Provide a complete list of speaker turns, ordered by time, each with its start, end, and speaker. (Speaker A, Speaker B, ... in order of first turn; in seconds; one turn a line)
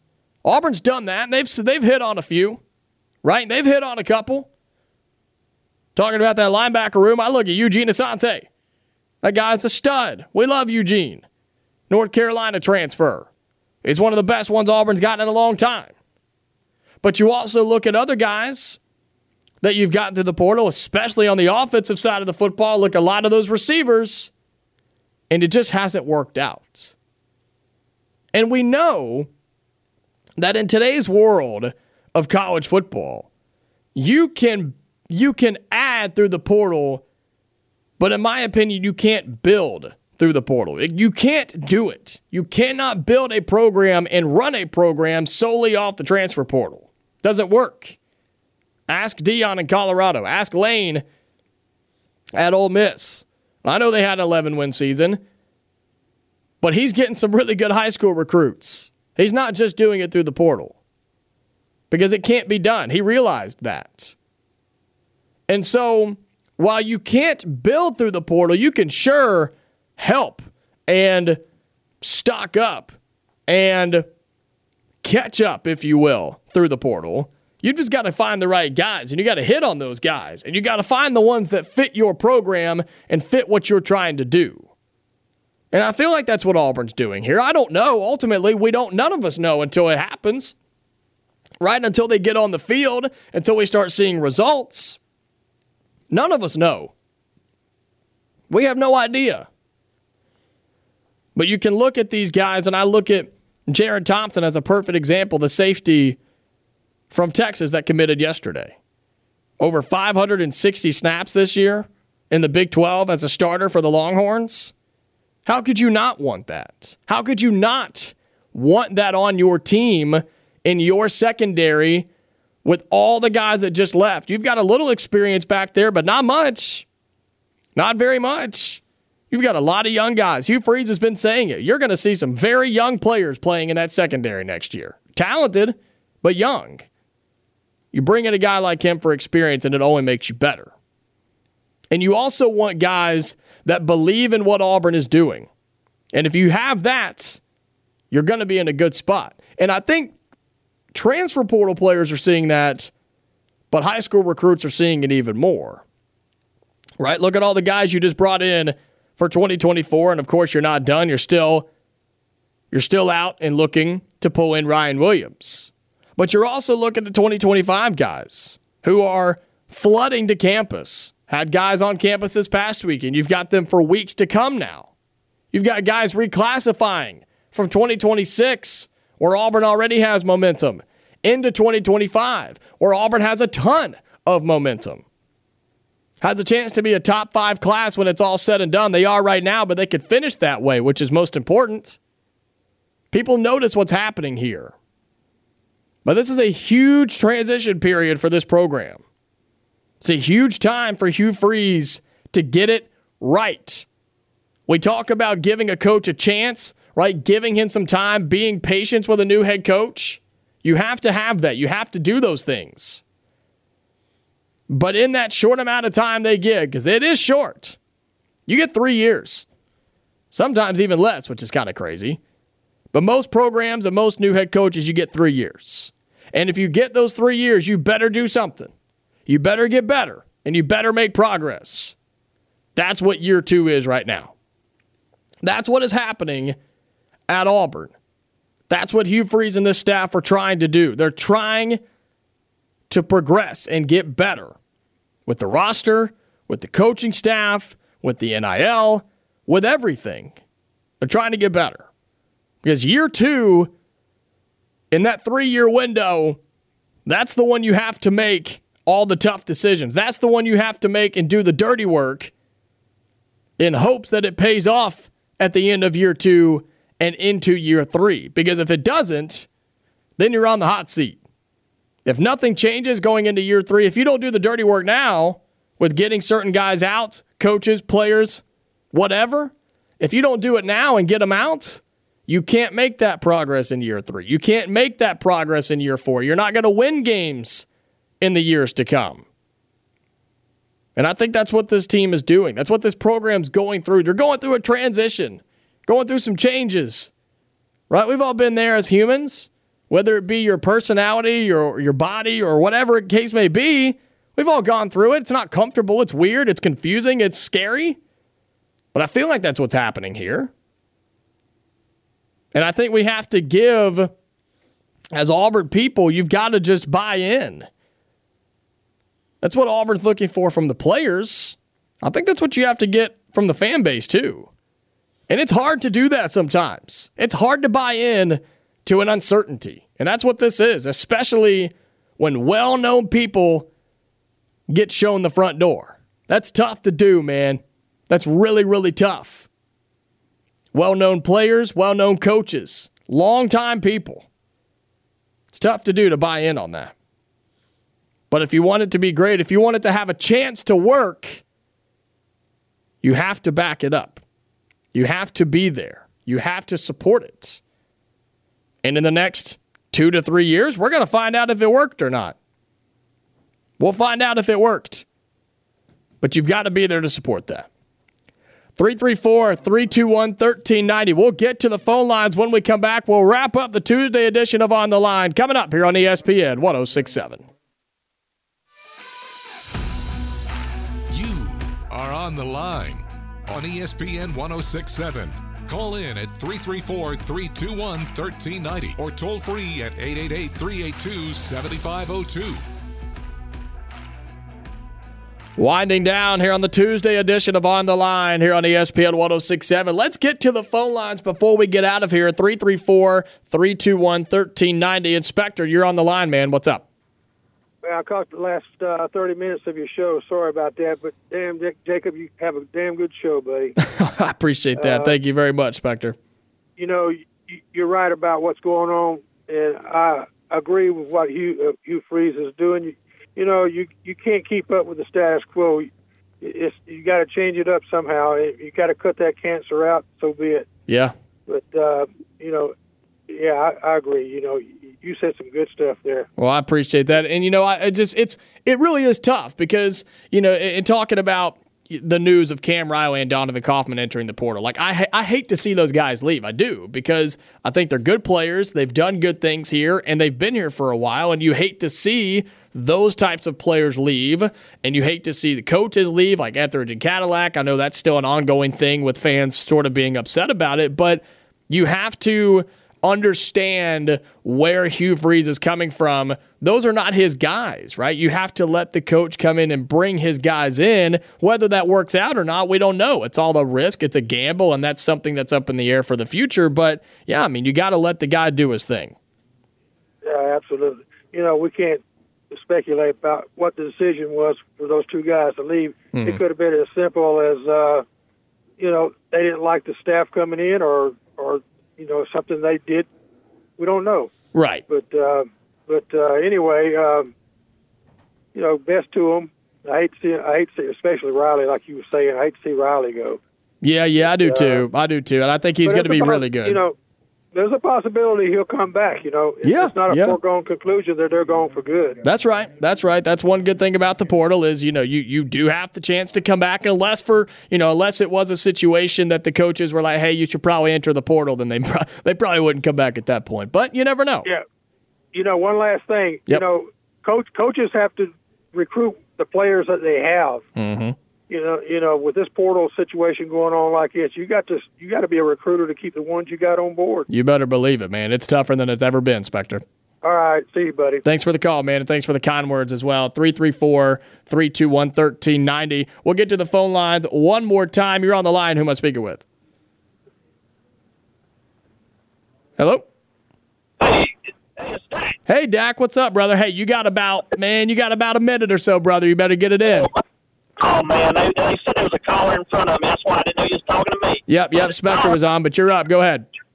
Speaker A: 0.4-2.6
Speaker A: 3.2-4.5
Speaker A: 6.0-8.5
Speaker A: 9.2-11.2
Speaker A: 11.9-13.3
Speaker A: 13.8-15.9
Speaker A: 17.0-18.8
Speaker A: 19.6-24.3
Speaker A: 25.3-26.9
Speaker A: 28.3-29.3
Speaker A: 30.4-33.3
Speaker A: 33.9-37.0
Speaker A: 38.0-48.0
Speaker A: 48.9-51.0
Speaker A: 52.4-55.2
Speaker A: 56.6-60.8
Speaker A: 61.9-64.1
Speaker A: 65.5-71.4
Speaker A: 72.0-73.0
Speaker A: 73.5-74.0
Speaker A: 75.0-84.7
Speaker A: 85.7-90.5
Speaker A: 91.6-95.0
Speaker A: 96.1-96.9
Speaker A: 98.5-99.5
Speaker A: 101.3-106.2
Speaker A: 107.1-108.8
Speaker A: 109.6-114.7
Speaker A: 115.5-122.1
Speaker A: 122.6-126.8
Speaker A: 127.8-136.9
Speaker A: 137.9-140.7
Speaker A: 141.9-145.5
Speaker A: 146.1-147.4
Speaker A: 148.1-150.1
Speaker A: 150.9-152.9
Speaker A: 153.7-155.8
Speaker A: 157.0-161.7
Speaker A: 162.7-174.9
Speaker A: 175.5-185.0
Speaker A: 186.2-192.0
Speaker A: 193.1-194.7
Speaker A: 196.0-199.0
Speaker A: 200.0-203.8
Speaker A: 204.7-213.0
Speaker A: 214.7-217.8
Speaker A: 218.5-219.4
Speaker A: 220.3-222.2
Speaker A: 222.9-228.7
Speaker A: 229.3-231.9
Speaker A: 232.8-234.3
Speaker A: 235.4-236.6
Speaker A: 237.3-237.9
Speaker A: 238.7-241.8
Speaker A: 242.9-244.6
Speaker A: 245.2-250.4
Speaker A: 251.0-251.9
Speaker A: 252.6-253.7
Speaker A: 254.9-256.4
Speaker A: 257.1-262.3
Speaker A: 263.6-269.5
Speaker A: 270.2-271.2
Speaker A: 272.1-287.6
Speaker A: 288.2-289.2
Speaker A: 290.9-297.1
Speaker A: 297.9-308.0
Speaker A: 308.9-310.5
Speaker A: 312.5-314.1
Speaker A: 315.1-317.7
Speaker A: 319.4-324.5
Speaker A: 325.3-333.7
Speaker A: 334.7-339.5
Speaker A: 340.7-344.2
Speaker A: 345.5-346.9
Speaker A: 348.3-351.4
Speaker A: 353.0-354.2
Speaker A: 354.9-357.6
Speaker A: 358.8-362.4
Speaker A: 363.8-365.0
Speaker A: 366.2-367.7
Speaker A: 368.8-377.4
Speaker B: 381.1-392.6
Speaker A: 395.6-406.9
Speaker C: 407.8-413.7
Speaker A: 413.8-416.1
Speaker C: 414.8-415.1
Speaker C: 416.8-430.6
Speaker A: 430.9-431.1
Speaker C: 431.5-432.7
Speaker C: 433.3-436.3
Speaker A: 436.4-479.1
Speaker C: 480.2-488.0
Speaker A: 486.1-486.4
Speaker C: 488.8-493.1
Speaker C: 493.8-494.3
Speaker A: 494.5-494.8
Speaker C: 494.9-497.3
Speaker C: 498.5-503.4
Speaker A: 503.8-506.8
Speaker C: 504.2-504.9
Speaker C: 505.8-506.9
Speaker C: 507.5-512.2
Speaker A: 509.6-510.4
Speaker A: 512.2-524.5
Speaker C: 525.3-530.6
Speaker A: 530.8-531.1
Speaker C: 531.5-537.3
Speaker A: 537.3-539.8
Speaker C: 540.2-541.2
Speaker A: 541.2-549.4
Speaker A: 552.8-553.0
Speaker D: 554.0-555.4
Speaker A: 555.5-560.1
Speaker D: 559.9-560.2
Speaker D: 560.8-565.4
Speaker A: 564.5-566.5